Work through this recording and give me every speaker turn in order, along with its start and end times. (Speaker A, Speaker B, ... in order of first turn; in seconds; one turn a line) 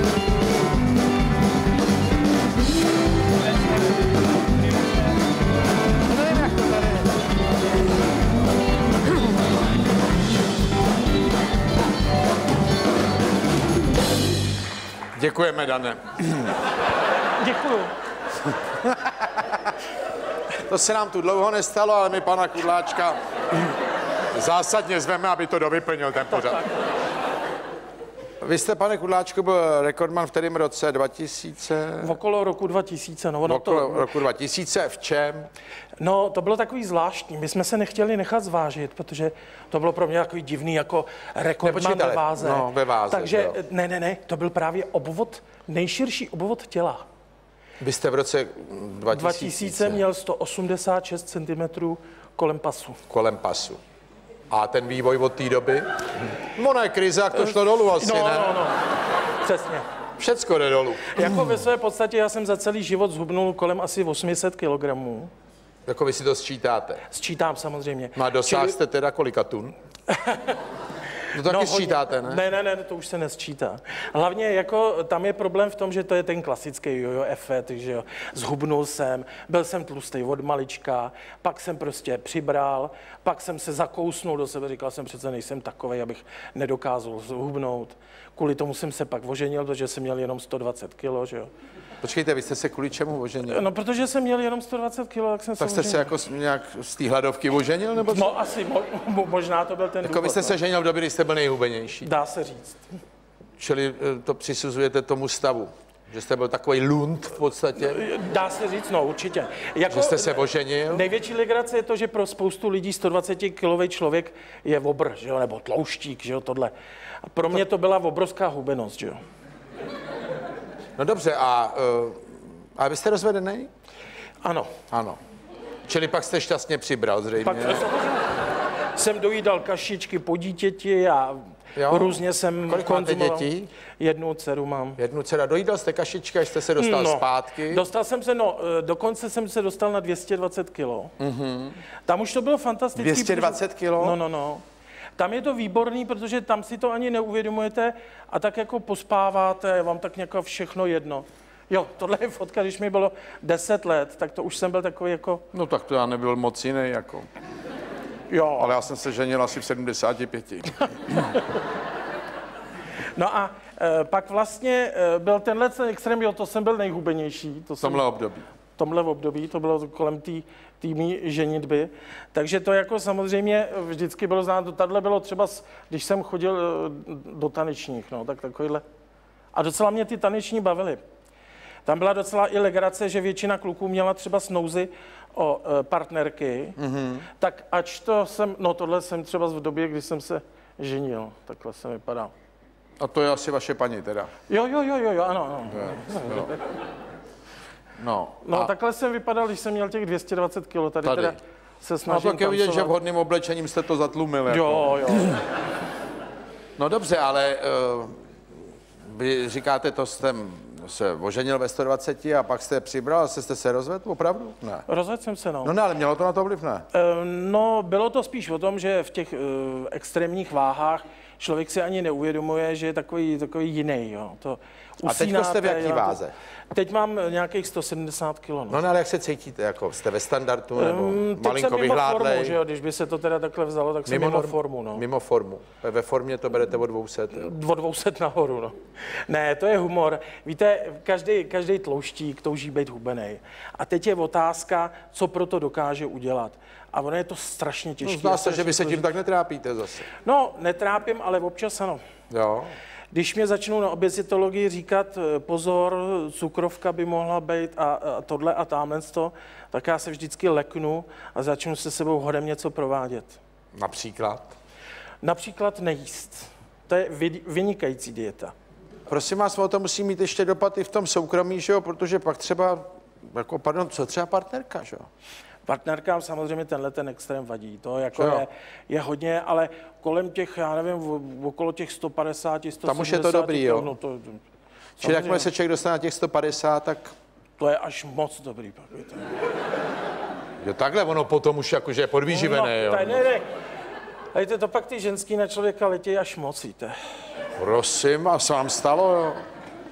Speaker A: 6.3-6.8
Speaker A: 15.2-16.6
Speaker B: 17.4-17.9
Speaker A: 18.8-19.6
Speaker A: 20.6-23.2
Speaker A: 24.3-26.7
Speaker A: 28.4-32.2
Speaker B: 32.0-34.1
Speaker A: 33.4-35.5
Speaker B: 36.0-47.0
Speaker A: 41.6-43.6
Speaker A: 47.8-50.0
Speaker B: 49.1-53.0
Speaker A: 53.1-53.8
Speaker A: 54.5-55.9
Speaker A: 56.5-58.5
Speaker B: 57.3-58.9
Speaker B: 59.4-59.9
Speaker A: 60.2-61.2
Speaker B: 61.1-65.3
Speaker A: 65.8-67.0
Speaker B: 67.1-68.8
Speaker A: 68.2-69.7
Speaker B: 70.1-70.6
Speaker A: 71.3-72.4
Speaker B: 71.4-91.5
Speaker A: 92.0-93.7
Speaker B: 93.5-96.1
Speaker A: 95.6-98.3
Speaker B: 98.0-100.6
Speaker A: 100.0-102.1
Speaker B: 102.0-102.9
Speaker A: 103.6-108.0
Speaker B: 107.7-116.7
Speaker A: 109.9-111.0
Speaker B: 117.3-119.2
Speaker A: 121.0-123.7
Speaker B: 124.4-124.7
Speaker A: 124.9-125.2
Speaker A: 125.9-127.8
Speaker B: 127.4-128.3
Speaker B: 128.9-135.0
Speaker A: 131.8-133.7
Speaker A: 135.0-137.8
Speaker B: 136.7-141.1
Speaker A: 141.2-141.8
Speaker B: 142.1-144.6
Speaker A: 143.0-144.2
Speaker B: 145.2-155.4
Speaker A: 155.5-157.3
Speaker B: 158.3-158.8
Speaker A: 158.6-161.2
Speaker B: 161.1-161.6
Speaker B: 163.2-168.0
Speaker A: 167.8-168.4
Speaker B: 168.8-178.8
Speaker B: 179.5-181.0
Speaker B: 181.8-186.8
Speaker A: 186.8-187.3
Speaker B: 187.4-192.3
Speaker A: 193.0-194.3
Speaker B: 194.5-196.6
Speaker A: 195.7-196.5
Speaker A: 198.0-198.7
Speaker B: 198.4-202.9
Speaker A: 201.0-201.4
Speaker A: 202.1-205.4
Speaker B: 204.5-205.4
Speaker A: 206.8-208.2
Speaker A: 209.0-214.8
Speaker B: 214.9-215.7
Speaker A: 215.6-216.8
Speaker B: 216.9-226.2
Speaker A: 225.0-226.3
Speaker B: 226.7-228.8
Speaker A: 228.7-232.6
Speaker B: 230.7-235.0
Speaker A: 234.1-237.5
Speaker B: 237.3-238.7
Speaker B: 239.2-249.1
Speaker A: 248.0-250.1
Speaker B: 250.2-252.0
Speaker A: 252.3-252.7
Speaker B: 253.1-263.4
Speaker A: 263.8-264.6
Speaker B: 265.2-268.5
Speaker A: 269.1-275.1
Speaker B: 275.6-284.4
Speaker A: 278.2-278.4
Speaker A: 282.8-283.9
Speaker B: 285.0-285.5
Speaker A: 285.0-287.1
Speaker B: 287.6-289.3
Speaker A: 290.6-293.2
Speaker B: 292.3-293.5
Speaker B: 294.3-296.9
Speaker A: 297.6-299.4